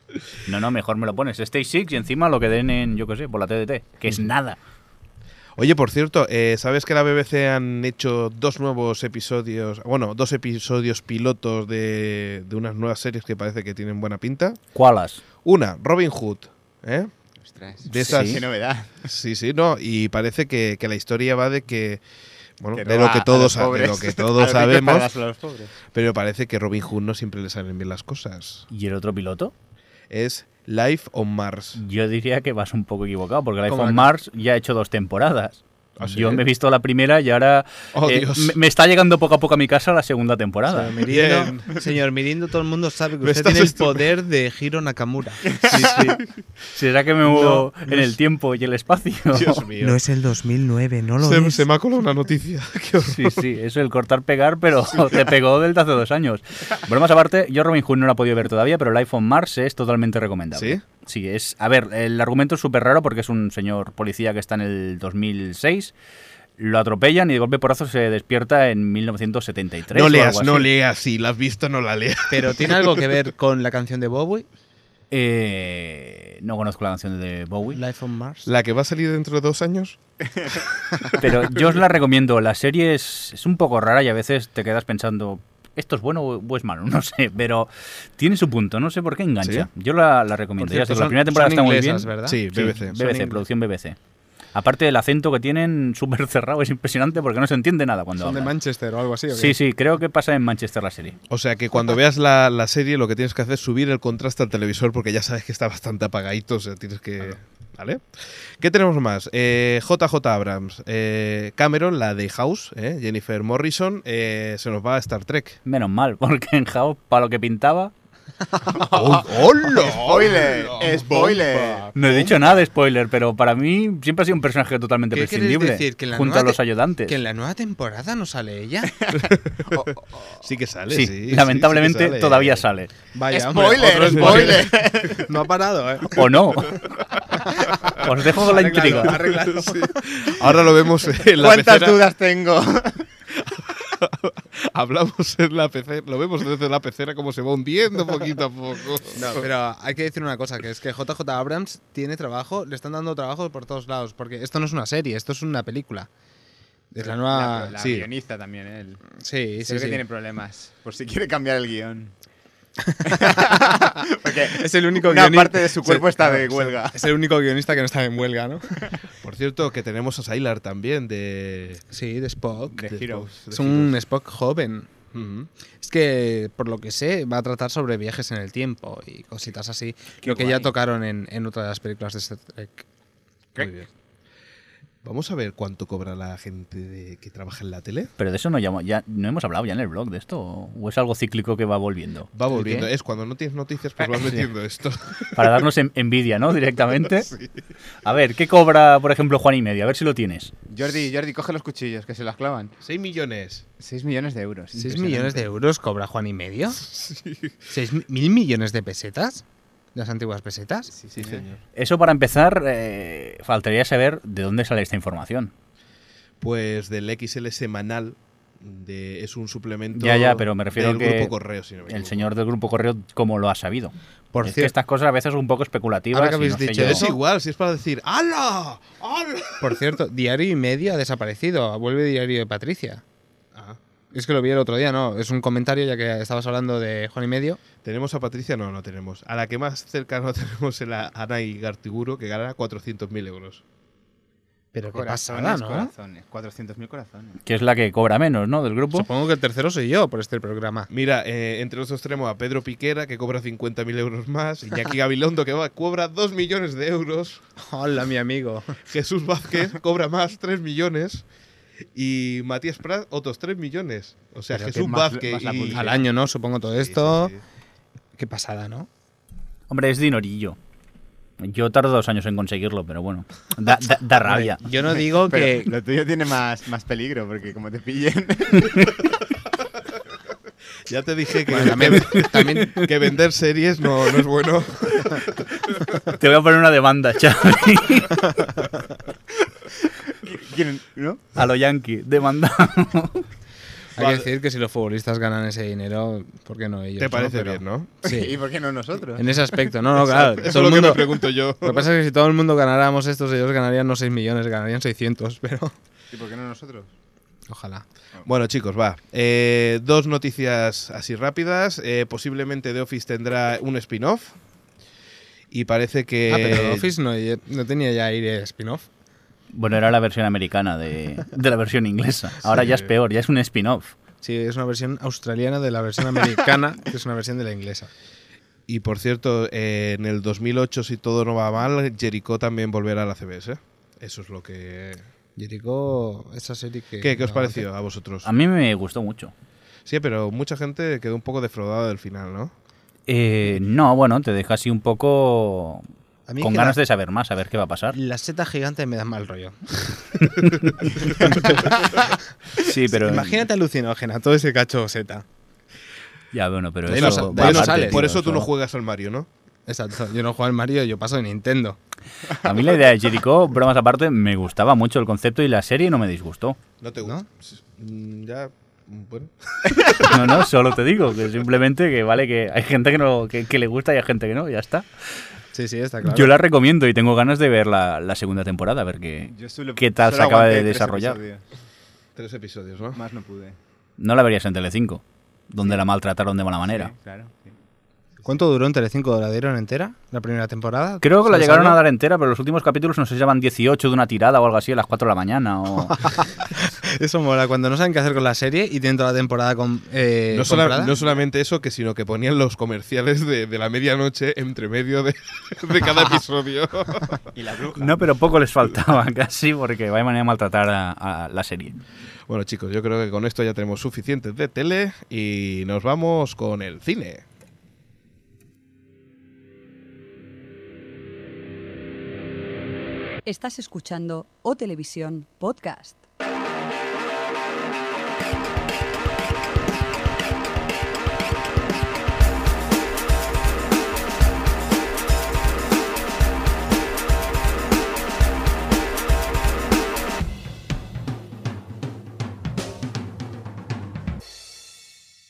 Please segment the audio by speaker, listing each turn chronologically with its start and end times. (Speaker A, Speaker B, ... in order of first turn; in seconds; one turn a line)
Speaker A: 0.5-4.6
Speaker B: 5.6-14.6
Speaker A: 14.8-15.2
Speaker B: 15.4-17.1
Speaker C: 17.5-19.1
Speaker B: 17.9-18.4
Speaker A: 17.9-18.4
Speaker B: 19.0-22.0
Speaker B: 22.6-25.1
Speaker C: 22.8-25.7
Speaker B: 25.9-28.7
Speaker A: 28.7-29.5
Speaker B: 30.1-31.8
Speaker A: 31.8-41.0
Speaker D: 33.7-34.1
Speaker B: 36.0-36.4
Speaker B: 37.9-38.6
Speaker D: 40.7-46.2
Speaker B: 41.1-41.6
Speaker B: 43.2-44.0
Speaker A: 46.7-49.6
Speaker D: 47.3-47.7
Speaker B: 49.3-50.0
Speaker D: 49.8-51.6
Speaker B: 51.2-53.5
Speaker A: 53.1-65.9
Speaker B: 60.5-60.8
Speaker A: 66.6-70.7
Speaker B: 69.9-73.1
Speaker D: 72.3-74.5
Speaker A: 75.1-77.8
Speaker D: 77.7-78.5
Speaker B: 78.5-80.0
Speaker A: 81.2-94.0
Speaker B: 89.4-89.7
Speaker D: 90.6-93.4
Speaker B: 92.3-93.0
Speaker A: 94.5-98.5
Speaker D: 98.2-99.6
Speaker A: 99.3-101.2
Speaker B: 101.3-115.6
Speaker A: 115.7-117.9
Speaker C: 118.7-121.9
Speaker B: 118.8-121.9
Speaker A: 122.0-127.2
Speaker D: 122.0-122.3
Speaker D: 125.1-128.9
Speaker C: 129.0-130.4
Speaker B: 129.1-132.7
Speaker A: 130.9-132.9
Speaker D: 133.1-136.3
Speaker C: 133.3-135.3
Speaker B: 134.0-134.7
Speaker A: 136.1-136.9
Speaker D: 137.4-140.4
Speaker A: 138.0-139.2
Speaker B: 139.1-142.0
Speaker C: 141.4-143.1
Speaker B: 143.3-149.5
Speaker D: 149.1-156.1
Speaker D: 156.9-157.7
Speaker C: 157.0-159.0
Speaker B: 157.8-158.1
Speaker D: 159.2-160.0
Speaker C: 159.6-162.1
Speaker D: 162.9-163.6
Speaker C: 163.1-167.0
Speaker D: 164.5-168.9
Speaker B: 169.2-171.8
Speaker D: 171.9-172.8
Speaker C: 172.7-173.3
Speaker B: 172.8-173.9
Speaker D: 173.5-174.9
Speaker B: 175.1-175.5
Speaker D: 175.8-182.9
Speaker C: 180.2-180.7
Speaker B: 183.6-183.9
Speaker B: 185.0-188.1
Speaker A: 188.2-192.8
Speaker B: 192.3-195.7
Speaker A: 194.2-194.4
Speaker A: 195.3-197.3
Speaker A: 198.0-200.5
Speaker C: 200.7-202.7
Speaker B: 202.8-203.6
Speaker C: 203.8-205.5
Speaker D: 204.7-206.9
Speaker B: 206.9-207.5
Speaker D: 207.7-209.4
Speaker D: 209.9-210.9
Speaker C: 210.9-211.5
Speaker B: 211.1-211.6
Speaker A: 211.8-215.5
Speaker B: 216.4-222.3
Speaker A: 219.9-221.3
Speaker A: 221.9-227.1
Speaker D: 224.3-224.7
Speaker D: 226.1-227.1
Speaker B: 226.8-229.8
Speaker D: 229.6-233.0
Speaker D: 234.1-237.6
Speaker B: 237.8-243.6
Speaker D: 244.7-245.9
Speaker C: 244.9-247.4
Speaker A: 247.5-249.1
Speaker D: 248.9-250.9
Speaker B: 250.9-257.4
Speaker D: 257.6-258.8
Speaker B: 258.9-261.2
Speaker B: 261.9-266.0
Speaker C: 264.5-266.1
Speaker D: 265.7-267.3
Speaker B: 266.7-267.4
Speaker D: 268.2-268.9
Speaker A: 269.7-270.6
Speaker A: 271.4-274.6
Speaker D: 274.2-275.7
Speaker C: 275.2-279.0
Speaker B: 280.9-286.0
Speaker D: 281.5-282.8
Speaker A: 282.0-282.7
Speaker A: 286.0-288.3
Speaker C: 290.1-291.2
Speaker A: 291.4-293.3
Speaker B: 294.0-294.3
Speaker D: 294.0-298.4
Speaker B: 297.0-297.9
Speaker C: 298.0-299.4
Speaker D: 299.2-305.8
Speaker B: 300.0-301.9
Speaker C: 306.1-306.9
Speaker D: 307.5-307.9
Speaker B: 308.2-314.4
Speaker B: 315.5-316.9
Speaker D: 316.3-318.9
Speaker A: 319.5-323.9
Speaker B: 322.5-322.9
Speaker D: 324.2-327.9
Speaker B: 328.7-335.1
Speaker D: 335.4-337.7
Speaker B: 337.0-338.3
Speaker A: 338.2-339.3
Speaker B: 339.9-342.5
Speaker A: 343.1-345.9
Speaker D: 346.3-346.8
Speaker A: 346.4-348.0
Speaker D: 347.9-349.9
Speaker D: 351.0-352.1
Speaker A: 352.6-353.4
Speaker D: 352.9-355.2
Speaker A: 356.3-358.5
Speaker D: 356.9-358.1
Speaker B: 356.9-359.3
Speaker D: 359.7-361.8
Speaker A: 362.4-366.6
Speaker B: 366.8-370.2
Speaker A: 369.9-374.9
Speaker D: 375.5-376.4
Speaker A: 376.1-381.2
Speaker C: 379.3-381.4
Speaker B: 382.2-383.0
Speaker C: 382.9-383.6
Speaker A: 384.0-386.9
Speaker C: 386.7-387.5
Speaker D: 388.2-391.8
Speaker A: 391.0-396.1
Speaker D: 395.9-401.0
Speaker B: 400.3-407.2
Speaker C: 407.3-408.0
Speaker A: 407.8-411.8
Speaker B: 412.3-417.2
Speaker E: 423.3-426.0